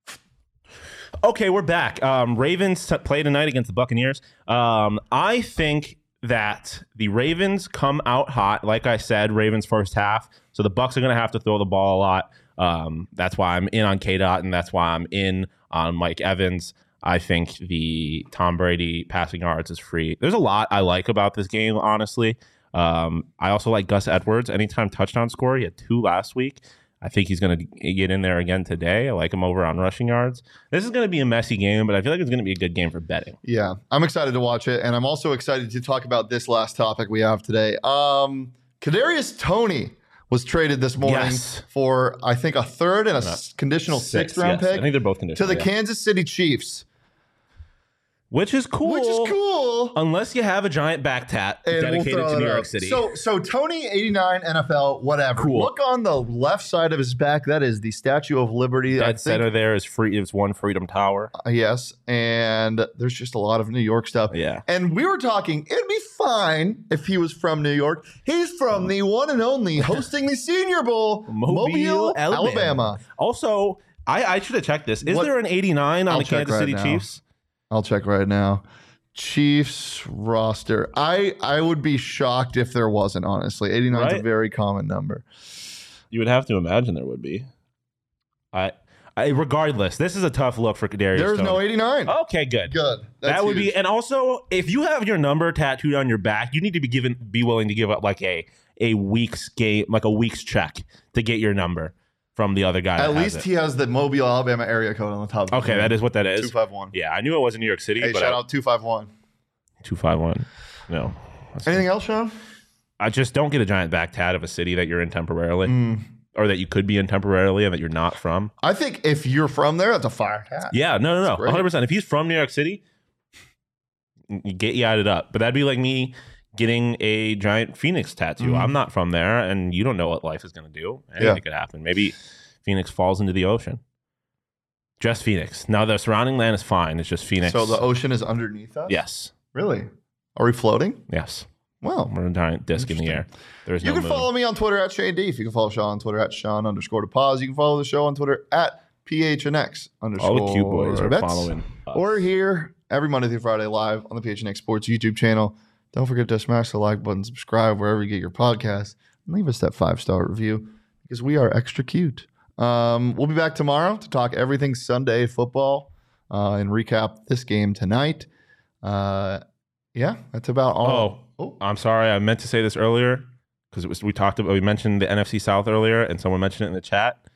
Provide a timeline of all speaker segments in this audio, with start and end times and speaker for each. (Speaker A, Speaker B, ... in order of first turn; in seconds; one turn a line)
Speaker A: 1.2-33.4
Speaker B: 33.4-46.9
Speaker A: 41.0-41.6
Speaker A: 43.2-45.7
Speaker A: 48.3-49.4
Speaker B: 48.8-50.0
Speaker A: 49.9-53.1
Speaker B: 51.7-59.5
Speaker A: 55.4-55.7
Speaker A: 58.9-61.3
Speaker B: 61.4-73.0
Speaker A: 64.3-64.6
Speaker A: 71.3-77.2
Speaker B: 75.0-75.3
Speaker B: 76.1-77.1
Speaker B: 77.7-85.3
Speaker A: 83.9-84.3
Speaker A: 86.1-87.5
Speaker A: 88.5-103.5
Speaker B: 91.1-92.2
Speaker B: 92.7-93.7
Speaker B: 103.0-107.0
Speaker A: 105.5-108.4
Speaker B: 108.0-109.1
Speaker A: 109.8-111.9
Speaker B: 111.7-112.4
Speaker A: 113.0-115.8
Speaker B: 115.7-116.0
Speaker A: 116.3-118.5
Speaker B: 118.6-121.7
Speaker A: 120.7-122.8
Speaker A: 124.3-133.8
Speaker B: 128.4-128.8
Speaker A: 135.0-137.8
Speaker B: 137.4-139.0
Speaker A: 138.9-139.3
Speaker B: 139.5-141.1
Speaker A: 141.1-141.5
Speaker B: 141.8-142.1
Speaker A: 142.1-144.3
Speaker B: 142.8-143.3
Speaker B: 143.8-168.3
Speaker A: 150.2-152.2
Speaker B: 168.8-169.4
Speaker B: 169.9-171.6
Speaker A: 170.8-177.2